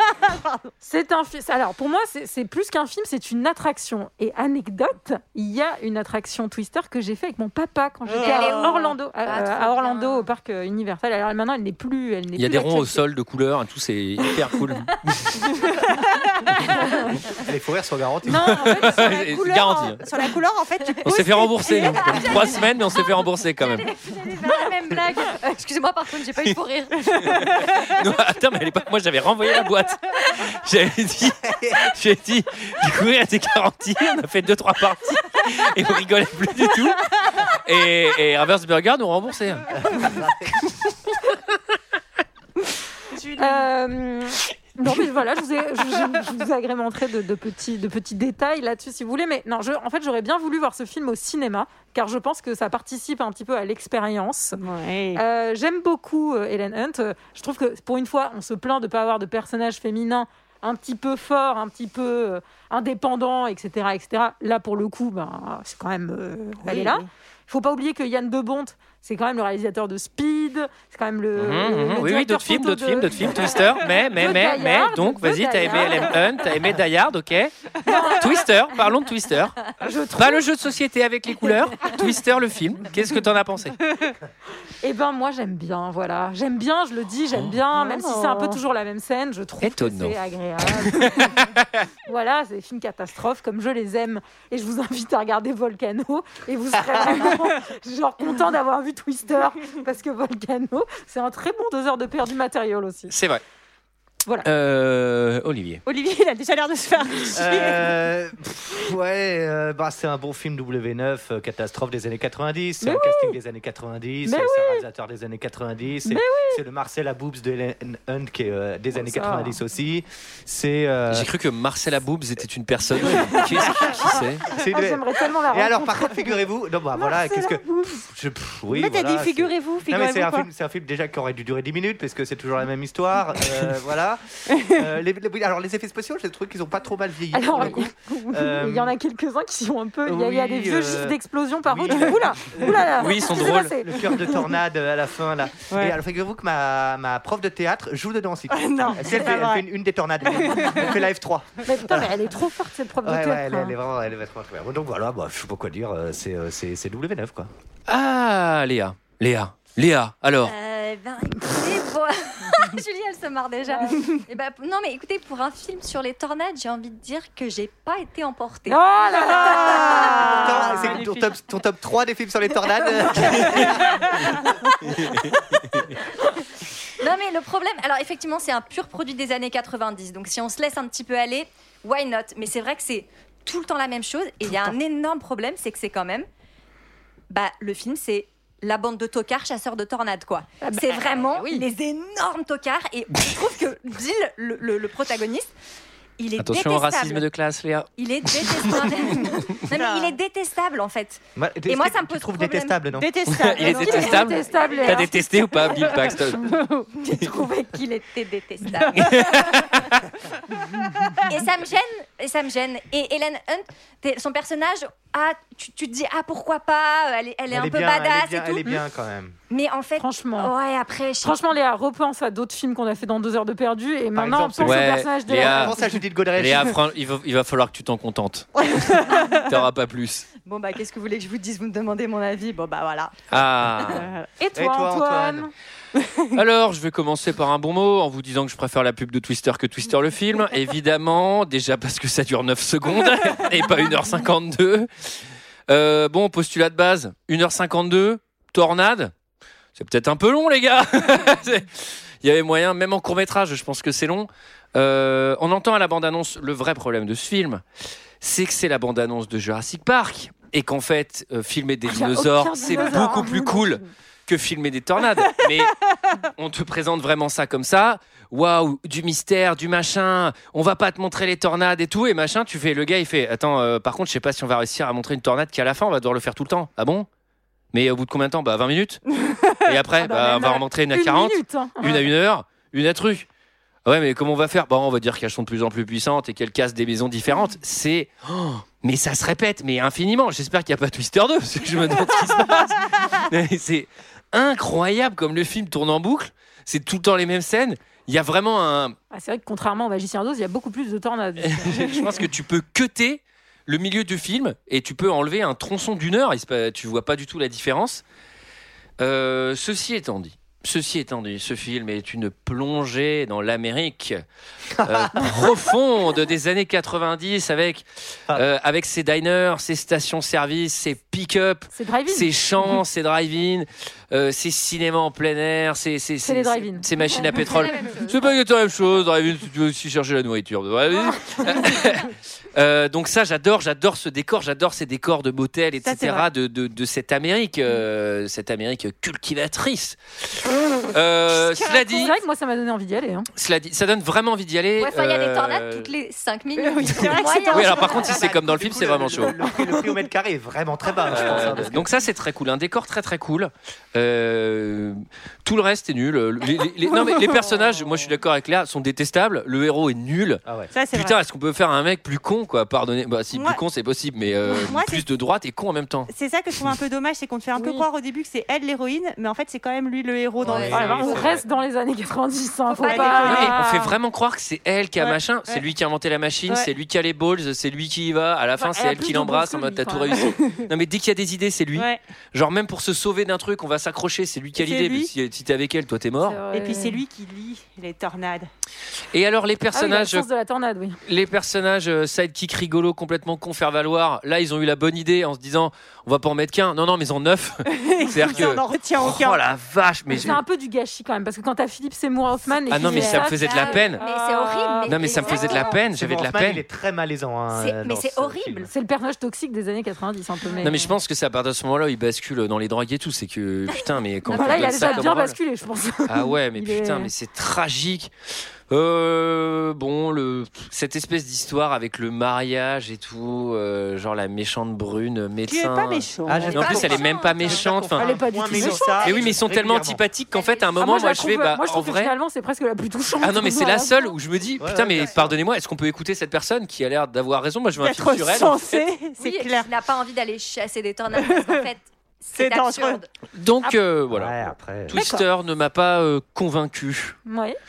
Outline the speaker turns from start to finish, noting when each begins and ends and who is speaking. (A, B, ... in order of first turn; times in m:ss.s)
0:00.2-0:00.6 A
0:00.8-0:13.0 B
0:08.1-0:08.6 A
0:08.2-0:10.3 C
0:12.4-0:15.5 D
0:17.4-0:18.9 E
0:18.2-0:19.4 B
0:18.5-0:20.0 D
0:19.0-0:22.2 A
0:21.0-0:23.9 D
0:21.6-0:23.1 C
0:23.6-0:27.4 C
0:27.2-0:39.8 D
0:31.5-0:31.9 E
0:39.8-0:40.6 E
0:43.1-0:43.6 A
0:43.4-0:54.6 B
0:54.6-0:55.2 A
0:55.1-1:16.2 B
1:06.6-1:07.0 A
1:11.4-1:17.5 D
1:17.8-1:18.5 B
1:18.2-1:19.6 D
1:19.8-1:20.4 B
1:20.2-1:23.8 D
1:24.8-1:31.4 B
1:27.3-1:27.6 D
1:27.7-1:28.6 A
1:29.6-1:30.1 D
1:30.8-1:31.7 D
1:32.0-1:43.1 B
1:37.0-1:37.3 A
1:43.1-1:43.4 D
1:44.4-1:45.8 D
1:45.8-1:48.0 A
1:47.3-2:01.3 E
1:52.8-1:53.4 B
1:54.2-1:54.8 B
1:56.0-1:56.6 B
1:58.9-1:59.6 B
2:01.1-2:04.4 D
2:03.6-2:18.9 E
2:04.6-2:06.1 B
2:07.0-2:07.6 A
2:08.7-2:10.4 A
2:17.3-2:24.5 B
2:20.0-2:22.9 E
2:23.0-2:23.7 D
2:23.8-2:32.1 E
2:25.7-2:26.0 A
2:28.5-2:29.6 A
2:30.4-2:30.9 A
2:31.6-2:33.7 B
2:33.0-2:37.5 E
2:37.9-2:40.5 D
2:40.4-2:50.6 C
2:48.7-2:50.4 B
2:49.2-2:51.3 A
2:50.0-2:54.3 E
2:57.0-3:06.2 C
3:07.3-3:15.5 C
3:10.6-3:11.6 B
3:16.2-3:17.2 C
3:16.4-3:18.8 D
3:18.0-3:22.8 C
3:19.7-3:20.1 A
3:21.4-3:23.1 E
3:22.9-3:24.8 A
3:23.3-3:26.4 D
3:23.7-3:25.1 B
3:23.8-3:25.2 C
3:26.3-3:26.9 A
3:27.0-3:29.7 C
3:28.8-3:29.1 A
3:28.9-3:30.0 D
3:31.2-3:38.8 C
3:37.5-3:39.4 E
3:39.5-3:41.4 C
3:40.0-3:40.5 B
3:41.2-3:45.7 B
3:44.1-3:46.8 E
3:44.6-3:45.8 D
3:46.4-3:50.3 D
3:48.6-3:49.5 A
3:50.4-3:53.1 C
3:53.3-3:54.1 D
3:53.9-3:54.3 A
3:54.4-3:55.5 B
3:54.5-3:55.5 E
3:56.0-3:56.3 A
3:56.3-4:04.9 D
4:05.7-4:09.1 D
4:09.8-4:17.6 D
4:18.2-4:37.1 D
4:21.8-4:23.8 B
4:37.7-4:39.0 D
4:39.2-4:39.6 A
4:39.6-4:43.3 D
4:40.0-4:42.0 B
4:43.8-4:58.9 D
4:59.1-5:02.2 B
5:01.4-5:08.0 D
5:09.0-5:14.2 D
5:14.8-5:15.4 E
5:14.8-5:40.0 D
5:21.7-5:22.3 B
5:26.2-5:27.7 B
5:27.3-5:28.2 C
5:31.1-5:31.8 B
5:35.8-5:36.2 A
5:40.8-5:42.1 D
5:41.3-5:41.9 A
5:41.9-5:43.3 B
5:43.4-5:45.9 D
5:44.8-5:48.1 C
5:46.6-5:48.0 A
5:47.0-5:49.4 D
5:48.0-5:51.9 E
5:51.1-6:06.1 D
6:00.4-6:00.7 E
6:00.7-6:01.2 A
6:03.3-6:03.6 A
6:04.5-6:05.0 A
6:06.1-6:11.2 A
6:07.5-6:07.8 B
6:10.4-6:11.4 C
6:10.5-6:11.4 D
6:10.6-6:11.2 E
6:10.6-6:13.9 B
6:12.7-6:13.5 C
6:12.8-6:13.6 A
6:13.2-6:26.4 D
6:15.0-6:15.6 A
6:18.6-6:20.2 B
6:24.6-6:25.1 A
6:26.2-6:27.0 B
6:26.5-6:28.5 A
6:29.1-6:30.2 D
6:29.7-6:31.0 B
6:31.0-6:40.4 D
6:37.7-6:39.4 A
6:40.1-6:45.6 B
6:42.7-6:44.0 D
6:42.8-6:45.8 C
6:44.9-6:46.6 D
6:45.9-6:48.7 E
6:47.5-6:48.7 C
6:48.7-6:50.9 B
6:50.6-6:55.4 D
6:53.7-6:55.1 C
6:54.3-6:57.1 B
6:56.1-6:58.1 D
6:58.7-7:08.0 D
7:05.5-7:07.0 A
7:06.2-7:10.0 E
7:06.4-7:07.6 C
7:08.0-7:09.1 B
7:08.5-7:08.8 A
7:09.0-7:12.1 D
7:10.3-7:10.8 C
7:10.8-7:14.1 B
7:13.2-7:18.8 D
7:14.6-7:15.4 E
7:17.8-7:19.7 A
7:19.2-7:23.1 C
7:22.3-7:23.0 A
7:23.3-7:27.2 D
7:24.1-7:25.0 E
7:24.9-7:25.2 A
7:27.3-7:27.6 B